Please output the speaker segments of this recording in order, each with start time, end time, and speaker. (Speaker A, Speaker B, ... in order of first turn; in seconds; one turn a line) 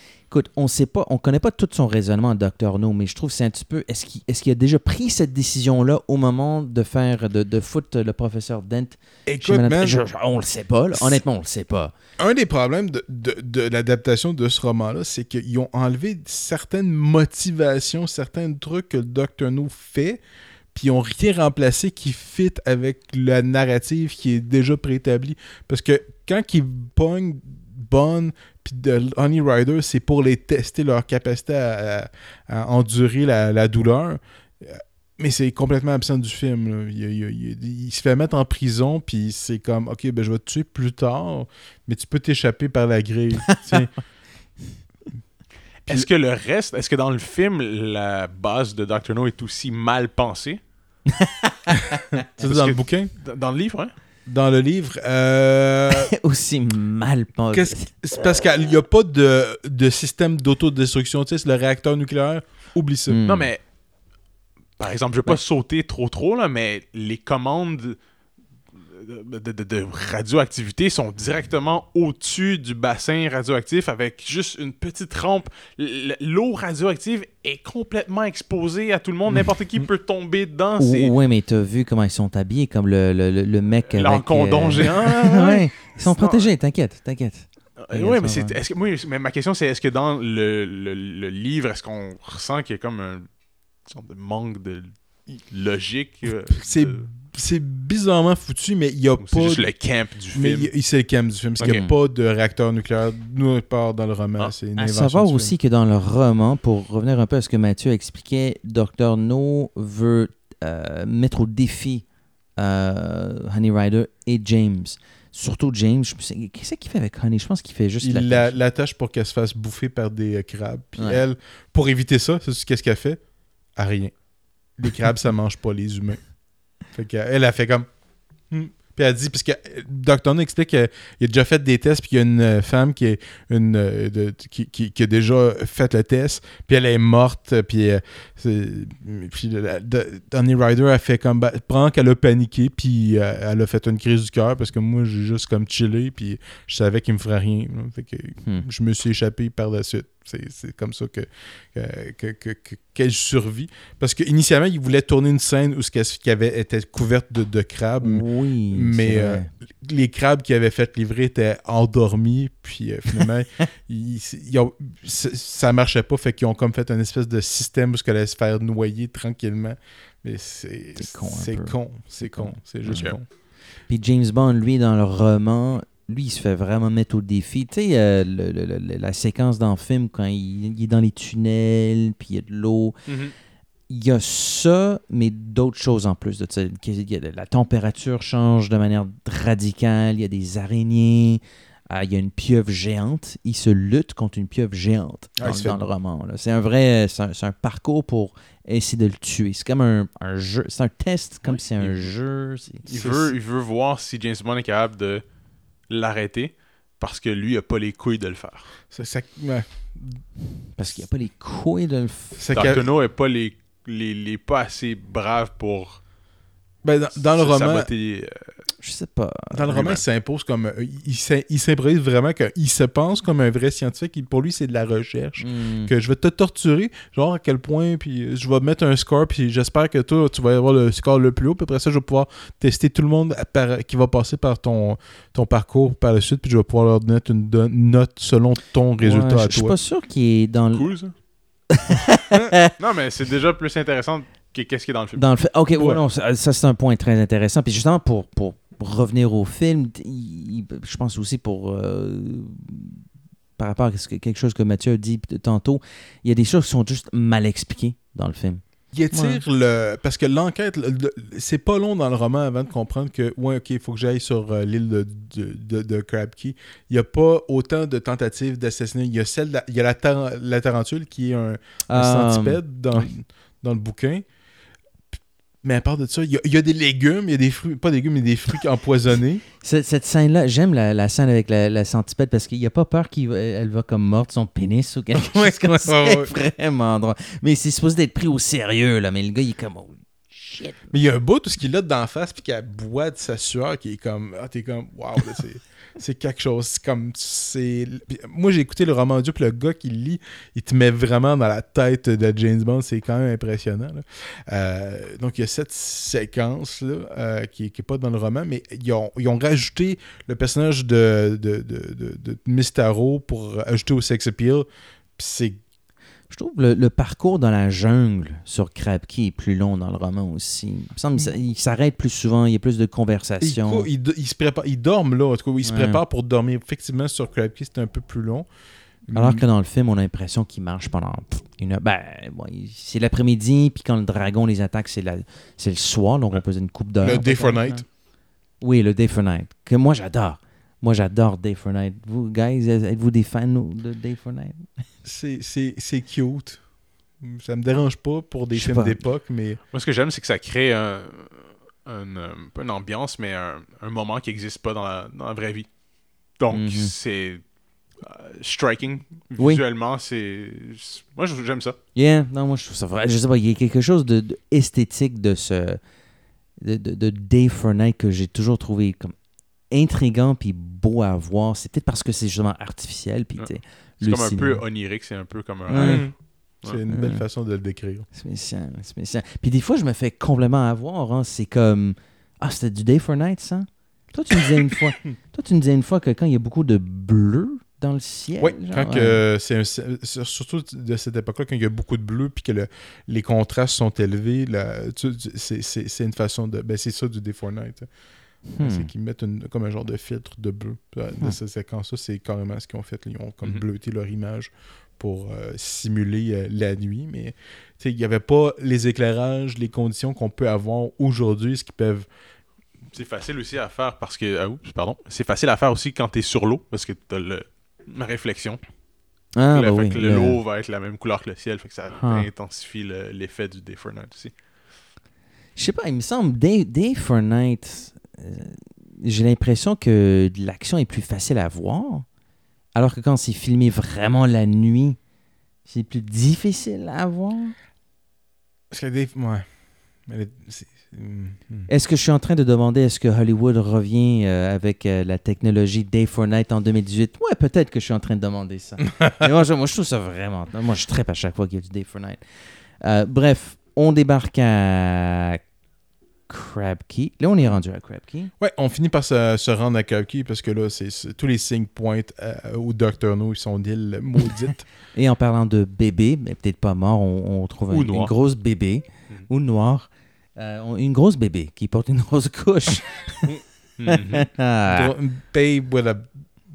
Speaker A: 0.3-11.9
Speaker B: 9.2-10.0
Speaker B: 10.9-11.2
Speaker B: 12.2-20.2
Speaker B: 20.7-43.9
Speaker A: 43.5-43.8
Speaker C: 45.9-50.6
Speaker A: 51.2-51.8
Speaker B: 52.4-53.1
Speaker C: 52.4-53.9
Speaker B: 54.2-56.1
Speaker A: 56.2-58.0
Speaker B: 57.5-63.2
Speaker A: 63.1-63.5
Speaker C: 63.2-63.6
Speaker C: 64.8-68.0
Speaker C: 68.7-81.1
Speaker A: 80.8-88.6
Speaker C: 83.9-86.5
Speaker C: 87.8-93.3
Speaker C: 93.8-97.1
Speaker B: 96.5-105.5
Speaker C: 99.2-100.7
Speaker A: 101.6-102.0
Speaker A: 104.8-112.0
Speaker A: 112.5-118.5
Speaker B: 118.0-123.2
Speaker A: 121.0-121.2
Speaker B: 123.7-124.2
Speaker B: 124.7-127.9
Speaker B: 128.5-173.2
Speaker A: 158.0-159.5
Speaker A: 171.0-183.0
Speaker C: 172.9-173.2
Speaker C: 183.1-183.3
Speaker A: 183.9-202.8
Speaker B: 195.4-195.8
Speaker C: 201.4-202.1
Speaker C: 202.9-205.2
Speaker B: 202.9-203.3
Speaker C: 205.9-208.7
Speaker B: 208.9-210.2
Speaker A: 210.8-212.5
Speaker B: 212.4-212.8
Speaker C: 212.5-216.1
Speaker B: 216.8-217.9
Speaker C: 217.3-218.6
Speaker A: 218.8-219.7
Speaker B: 219.5-239.7
Speaker C: 219.7-220.0
Speaker A: 225.4-225.9
Speaker A: 239.0-241.2
Speaker C: 240.7-241.2
Speaker A: 242.3-242.7
Speaker C: 242.8-245.2
Speaker A: 245.2-253.0
Speaker A: 253.6-259.4
Speaker B: 258.9-274.2
Speaker A: 271.9-273.0
Speaker B: 275.6-279.4
Speaker A: 279.6-290.9
Speaker B: 285.2-286.3
Speaker B: 290.9-315.6
Speaker A: 316.3-323.9
Speaker B: 323.4-328.5
Speaker A: 325.6-326.0
Speaker B: 329.1-329.4
Speaker A: 329.1-337.9
Speaker B: 337.0-337.9
Speaker A: 338.6-344.7
Speaker B: 345.0-346.7
Speaker B: 347.2-349.6
Speaker A: 348.5-349.0
Speaker C: 349.7-355.7
Speaker C: 356.3-357.4
Speaker A: 356.5-356.9
Speaker C: 358.0-361.8
Speaker A: 359.4-359.6
Speaker A: 361.9-365.8
Speaker A: 366.6-369.2
Speaker A: 369.7-374.6
Speaker C: 373.4-376.8
Speaker A: 375.7-376.1
Speaker B: 375.8-378.1
Speaker A: 376.9-377.2
Speaker A: 378.1-389.2
Speaker B: 388.4-397.9
Speaker A: 398.5-398.9
Speaker B: 398.6-412.1
Speaker C: 412.9-418.6
Speaker A: 419.4-420.4
Speaker C: 419.5-424.3
Speaker A: 422.0-422.3
Speaker A: 425.6-432.1
Speaker A: 432.7-435.0
Speaker A: 435.6-437.5
Speaker B: 438.7-439.5
Speaker B: 440.0-441.7
Speaker A: 441.7-452.2
Speaker A: 452.8-455.4
Speaker A: 456.3-458.3
Speaker B: 458.4-464.6
Speaker A: 464.9-473.2
Speaker C: 467.7-468.1
Speaker C: 473.8-474.2
Speaker A: 473.9-474.9
Speaker B: 474.7-476.3